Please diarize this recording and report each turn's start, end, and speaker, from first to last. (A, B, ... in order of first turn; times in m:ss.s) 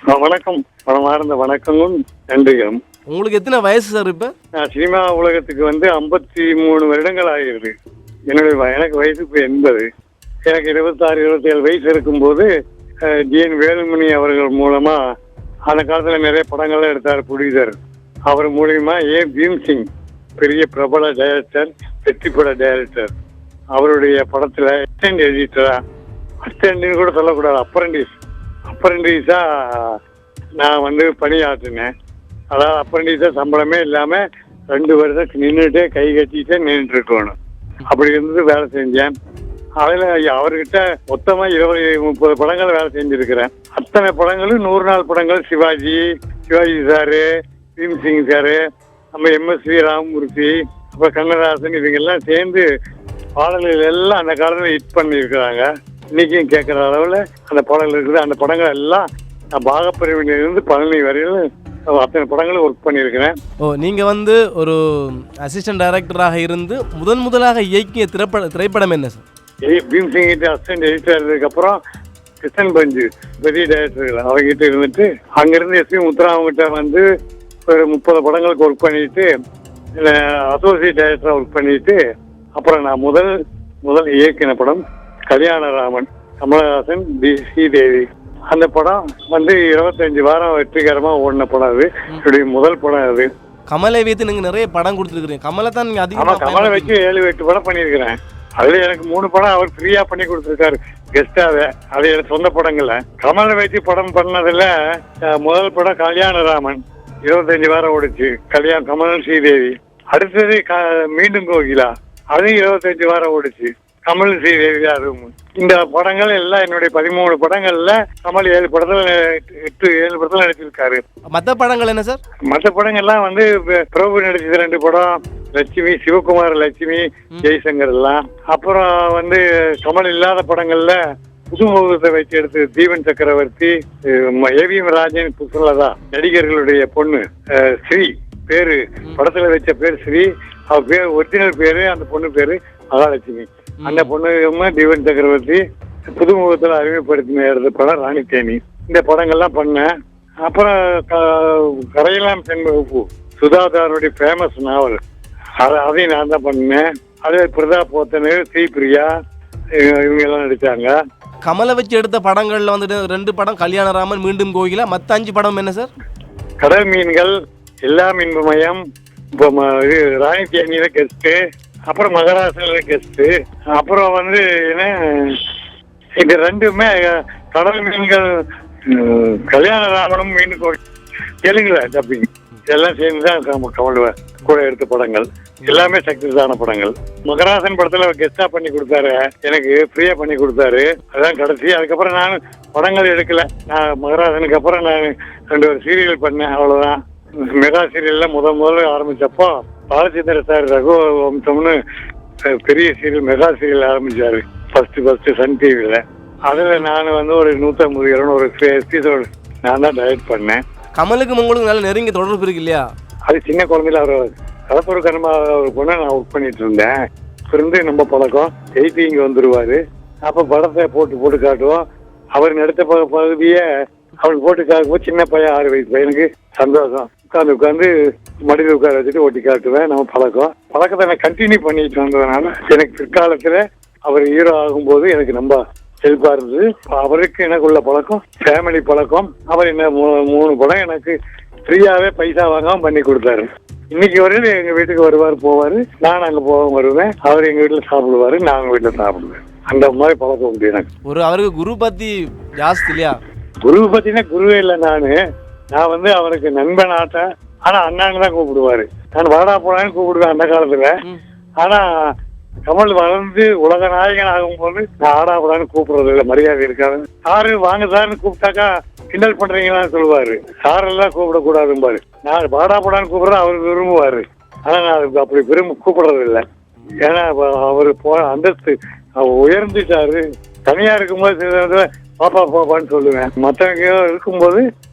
0:00.1-0:02.8 A
0:03.1-0:04.3 B
0:04.6-0:07.7 A
0:08.3-0:09.8 A
0:10.5-0:12.5 A
0:13.1-0:15.0 A
0:15.7-0:17.8 A
0:18.3-0:19.8 A
0:20.4-0:23.1 A
0:23.8-0:25.8 A
0:26.4-0:28.1 A
0:28.7-0:30.0 A
0:30.6-0:31.9 A
0:32.5-0:37.3 A
0:37.9-0:39.1 A
0:39.8-0:47.2 A
0:47.8-0:48.6 A
0:49.1-0:52.6 A
0:53.4-0:59.0 A
0:59.6-1:01.4 A
1:02.0-1:03.3 A
1:03.6-1:09.2 B
1:09.7-1:11.8 A
1:12.4-1:17.0 A
1:17.7-1:19.3 A
1:20.0-1:22.0 A
1:22.6-1:23.3 A
1:23.8-1:24.8 A
1:25.3-1:33.3 A
1:33.7-1:36.9 B
1:36.2-1:44.7 A
1:45.4-2:01.0 A
2:01.3-2:02.2 B
2:02.5-2:11.0 A
2:11.5-2:13.7 A
2:14.2-2:17.2 A
2:17.8-2:25.6 A
2:23.8-2:24.1 B
2:26.2-2:29.9 A
2:30.4-2:35.0 A
2:35.6-2:39.1 A
2:39.8-2:40.9 A
2:41.4-2:45.9 B
2:46.6-2:47.3 A
2:47.8-2:48.8 A
2:49.4-2:51.4 A
2:51.9-2:55.4 A
2:56.2-2:58.2 A
2:58.9-3:00.8 A
3:01.4-3:17.0 A
3:17.6-3:21.8 A
3:22.6-3:30.6 A
3:31.0-3:32.8 B
3:33.3-3:36.9 A
3:37.5-3:41.8 A
3:42.4-3:43.6 A
3:44.2-3:47.9 A
3:48.5-4:01.1 A
4:01.7-4:10.8 A
4:11.1-4:13.2 B
4:13.6-4:15.1 A
4:15.7-4:21.0 A
4:22.7-4:36.4 A
4:37.0-4:44.6 A